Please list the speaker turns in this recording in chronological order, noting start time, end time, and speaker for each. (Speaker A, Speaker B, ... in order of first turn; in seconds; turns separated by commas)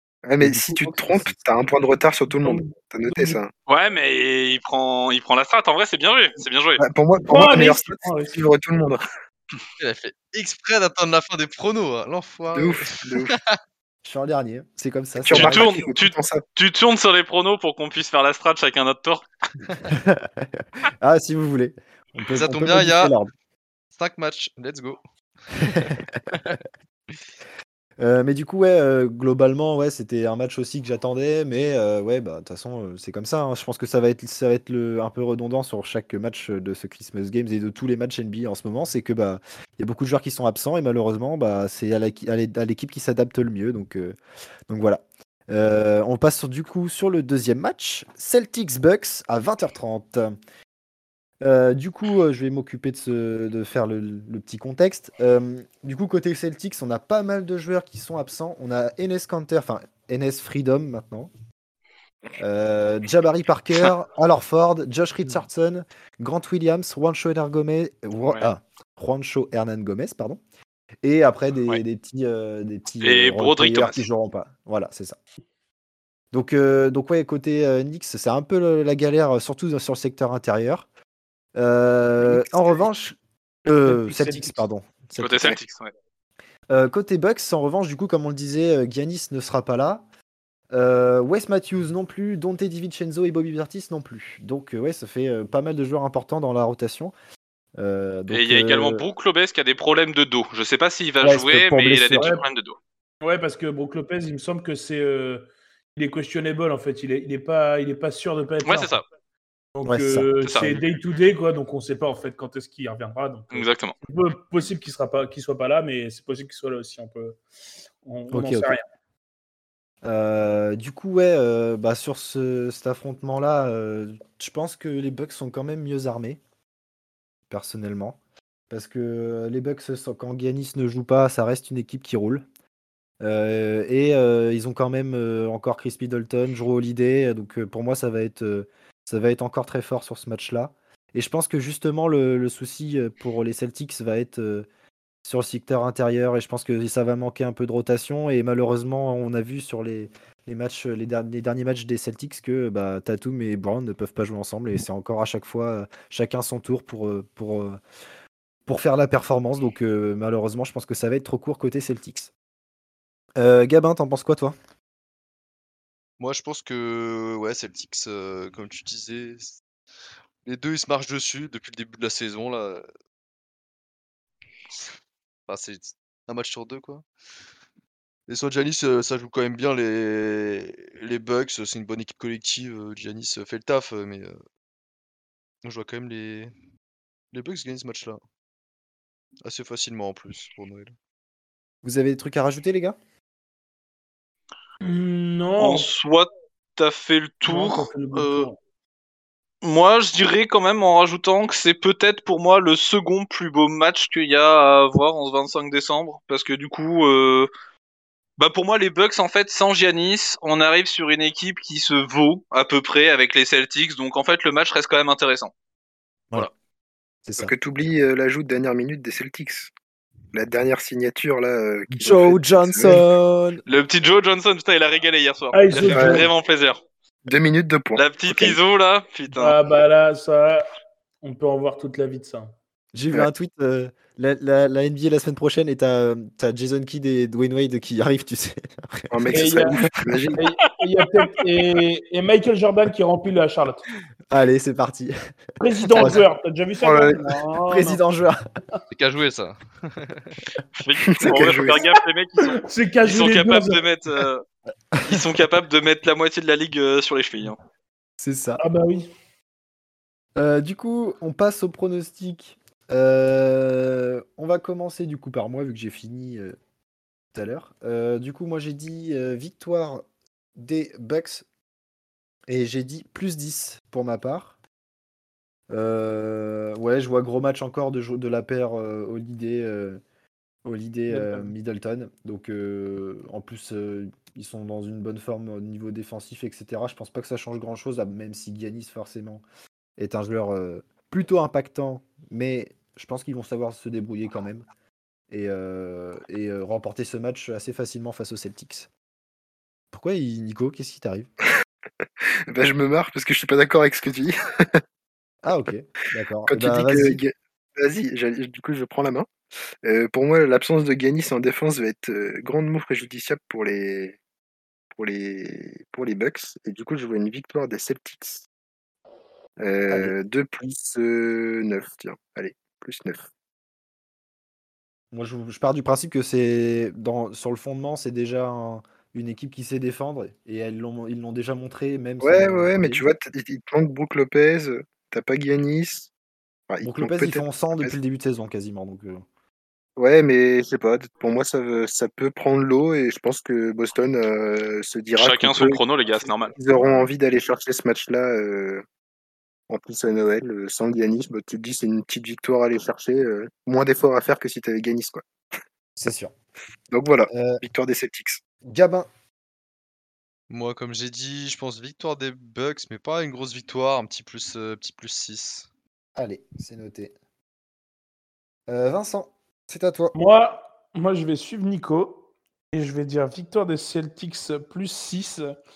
Speaker A: 0.3-3.5, Speaker B: 0.4-1.7, Speaker C: 2.3-3.4, Speaker D: 3.7-6.8, Speaker A: 6.8-9.0, Speaker C: 7.2-8.4, Speaker E: 9.8-13.6, Speaker A: 12.5-13.3, Speaker B: 14.0-15.7, Speaker A: 15.2-16.4, Speaker D: 15.3-19.3, Speaker B: 19.9-23.3, Speaker E: 22.3-23.1, Speaker E: 23.9-26.6, Speaker B: 25.6-26.6, Speaker B: 28.0-44.2, Speaker B: 44.7-50.4, Speaker B: 51.4-61.3, Speaker B: 62.4-70.4, Speaker B: 71.0-75.2, Speaker D: 73.0-74.0, Speaker B: 76.3-80.9, Speaker B: 81.5-85.5, Speaker C: 83.9-84.6, Speaker D: 85.2-85.9, Speaker B: 86.7-90.0, Speaker B: 90.7-97.1, Speaker B: 97.8-99.0, Speaker D: 98.3-102.8, Speaker B: 101.2-102.3, Speaker C: 103.2-105.5, Speaker C: 106.0-109.0, Speaker D: 108.7-109.0, Speaker C: 109.7-117.4, Speaker B: 109.8-110.7, Speaker D: 110.4-110.8, Speaker D: 113.5-113.9, Speaker C: 118.0-118.8, Speaker B: 118.3-118.8, Speaker B: 120.0-126.4, Speaker B: 127.5-128.2, Speaker B: 128.7-132.5, Speaker B: 133.2-144.7, Speaker B: 145.3-157.8, Speaker B: 158.7-162.3, Speaker B: 163.4-164.6, Speaker E: 166.2-169.6, Speaker E: 170.4-172.9, Speaker E: 175.5-177.1, Speaker E: 178.3-184.4, Speaker E: 185.6-186.5, Speaker E: 187.3-188.2, Speaker E: 189.4-190.9, Speaker B: 191.8-193.0, Speaker C: 194.8-195.9, Speaker D: 195.6-197.9, Speaker C: 197.5-198.6, Speaker D: 199.6-207.5, Speaker D: 208.4-215.5, Speaker B: 217.2-217.5, Speaker A: 217.4-219.7, Speaker A: 220.3-223.0, Speaker B: 221.9-223.6, Speaker D: 223.7-226.8, Speaker C: 225.5-226.3, Speaker A: 225.9-226.3, Speaker A: 227.3-228.6, Speaker D: 228.0-229.6, Speaker C: 229.3-230.7, Speaker C: 231.2-232.5, Speaker B: 232.9-240.2, Speaker A: 239.1-240.4, Speaker C: 239.3-239.8, Speaker C: 240.4-243.8, Speaker B: 244.3-245.1, Speaker C: 245.6-248.0, Speaker B: 245.9-246.2, Speaker A: 246.8-247.2, Speaker B: 247.7-248.4, Speaker E: 248.9-250.4, Speaker D: 250.8-254.4, Speaker A: 251.2-251.8, Speaker C: 252.5-253.8, Speaker B: 254.9-255.2, Speaker D: 255.1-257.6, Speaker B: 258.2-258.6, Speaker C: 258.6-259.1, Speaker B: 260.4-266.6, Speaker B: 267.3-271.5, Speaker B: 272.5-274.6, Speaker B: 275.7-280.0, Speaker B: 280.6-289.4, Speaker C: 281.1-281.5, Speaker B: 290.0-294.6, Speaker B: 295.3-298.9, Speaker B: 299.9-301.3, Speaker A: 302.5-304.8, Speaker B: 305.4-307.2, Speaker A: 306.5-309.3, Speaker A: 309.9-314.2, Speaker A: 314.9-318.4, Speaker A: 319.6-323.3, Speaker B: 319.9-320.1, Speaker B: 325.1-333.1, Speaker A: 332.2-336.1, Speaker A: 336.7-337.9, Speaker B: 336.8-339.2, Speaker A: 340.0-345.8, Speaker D: 345.2-346.5, Speaker A: 346.6-348.8, Speaker A: 349.7-355.2, Speaker B: 356.0-356.3, Speaker A: 356.9-358.4, Speaker B: 357.3-357.6, Speaker B: 358.6-359.1, Speaker E: 360.5-365.7, Speaker B: 366.2-367.1, Speaker B: 368.7-370.1, Speaker C: 370.1-375.5